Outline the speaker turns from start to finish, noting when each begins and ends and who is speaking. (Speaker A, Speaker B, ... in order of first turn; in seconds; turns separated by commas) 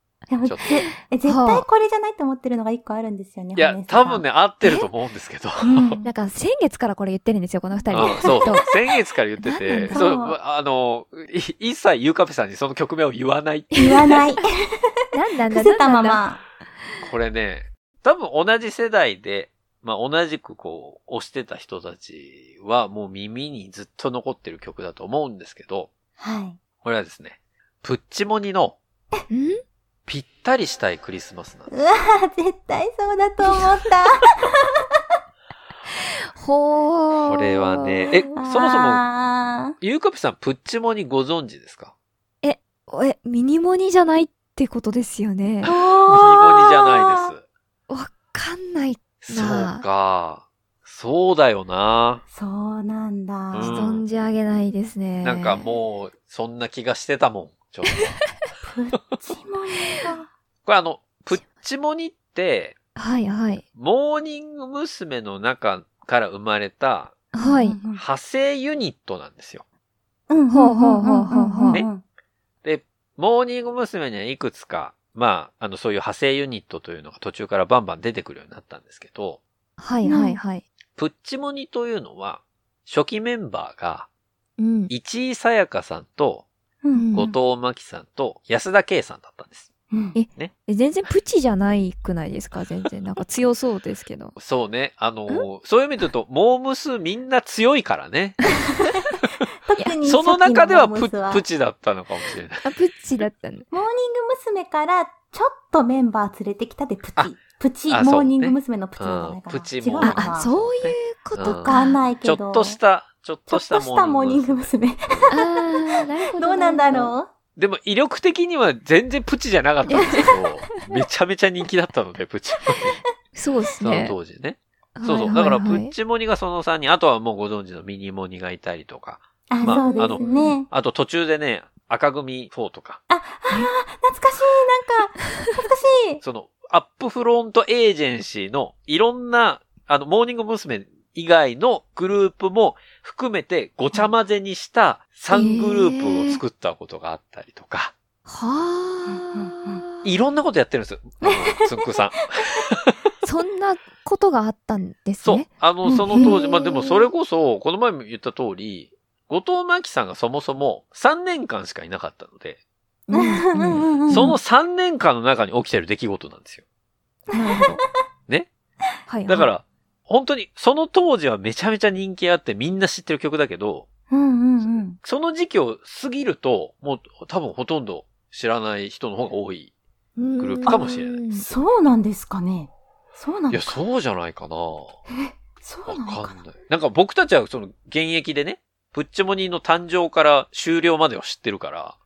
Speaker A: 0.3-4.2, Speaker B: 0.4-0.7, Speaker C: 0.8-1.7, Speaker B: 3.6-6.0, Speaker C: 4.6-4.9, Speaker A: 5.6-6.1, Speaker C: 6.0-8.7, Speaker A: 7.9-8.4, Speaker B: 7.9-14.2, Speaker C: 9.4-10.0, Speaker A: 9.9-10.4, Speaker A: 13.8-14.9, Speaker C: 15.1-16.2, Speaker A: 15.5-16.4, Speaker B: 17.0-25.9, Speaker A: 26.2-26.6, Speaker B: 26.8-28.8, Speaker C: 29.3-29.6, Speaker B: 30.1-31.7, Speaker A: 31.7-34.9, Speaker C: 36.4-38.1, Speaker B: 37.3-39.0, Speaker A: 38.3-39.8, Speaker B: 39.8-41.9, Speaker C: 42.4-45.7, Speaker B: 45.6-47.4, Speaker A: 45.7-47.3, Speaker C: 47.9-49.8, Speaker B: 49.2-52.2, Speaker A: 52.3-53.8, Speaker B: 53.5-54.0, Speaker C: 53.6-55.7, Speaker B: 55.2-58.2, Speaker A: 58.6-60.3, Speaker B: 60.6-62.8, Speaker C: 63.0-63.6, Speaker B: 63.8-67.3, Speaker C: 67.3-67.8, Speaker A: 67.4-68.0, Speaker B: 67.9-69.6, Speaker A: 70.3-72.0, Speaker C: 70.5-71.9, Speaker B: 72.6-79.4, Speaker C: 79.8-80.7, Speaker A: 80.0-80.4, Speaker B: 81.0-84.1, Speaker C: 84.6-84.9, Speaker B: 84.9-86.5, Speaker A: 86.8-87.1, Speaker C: 86.9-87.4, Speaker B: 87.1-89.7, Speaker A: 89.9-90.2, Speaker C: 90.2-94.4, Speaker B: 94.4-98.6, Speaker A: 99.7-101.4, Speaker B: 100.0-102.8, Speaker C: 102.6-103.7, Speaker A: 103.7-110.5, Speaker B: 107.9-115.3, Speaker C: 110.0-112.0, Speaker A: 111.4-112.8, Speaker A: 113.5-117.3, Speaker C: 115.3-117.1, Speaker B: 117.6-123.0, Speaker C: 119.9-120.3, Speaker C: 123.3-124.2, Speaker B: 123.8-133.0, Speaker C: 125.0-125.9, Speaker A: 129.5-130.7, Speaker C: 129.7-130.6, Speaker A: 133.1-136.2, Speaker B: 136.2-147.9, Speaker C: 145.3-146.4, Speaker C: 148.3-150.1, Speaker A: 149.1-149.8, Speaker B: 150.0-153.0, Speaker A: 151.2-151.9, Speaker C: 153.2-155.5, Speaker B: 155.2-162.6, Speaker A: 155.8-156.4, Speaker C: 156.1-157.1, Speaker C: 163.1-164.3, Speaker A: 163.1-164.3, Speaker B: 164.1-166.6, Speaker A: 167.3-167.7, Speaker C: 167.3-167.8, Speaker C: 169.1-169.5, Speaker B: 169.3-173.9, Speaker A: 174.1-175.0, Speaker B: 175.0-179.7, Speaker C: 180.2-181.5, Speaker B: 180.4-181.6, Speaker A: 180.7-180.9, Speaker A: 181.5-183.8, Speaker B: 183.5-185.0, Speaker A: 185.1-186.4, Speaker B: 185.9-192.0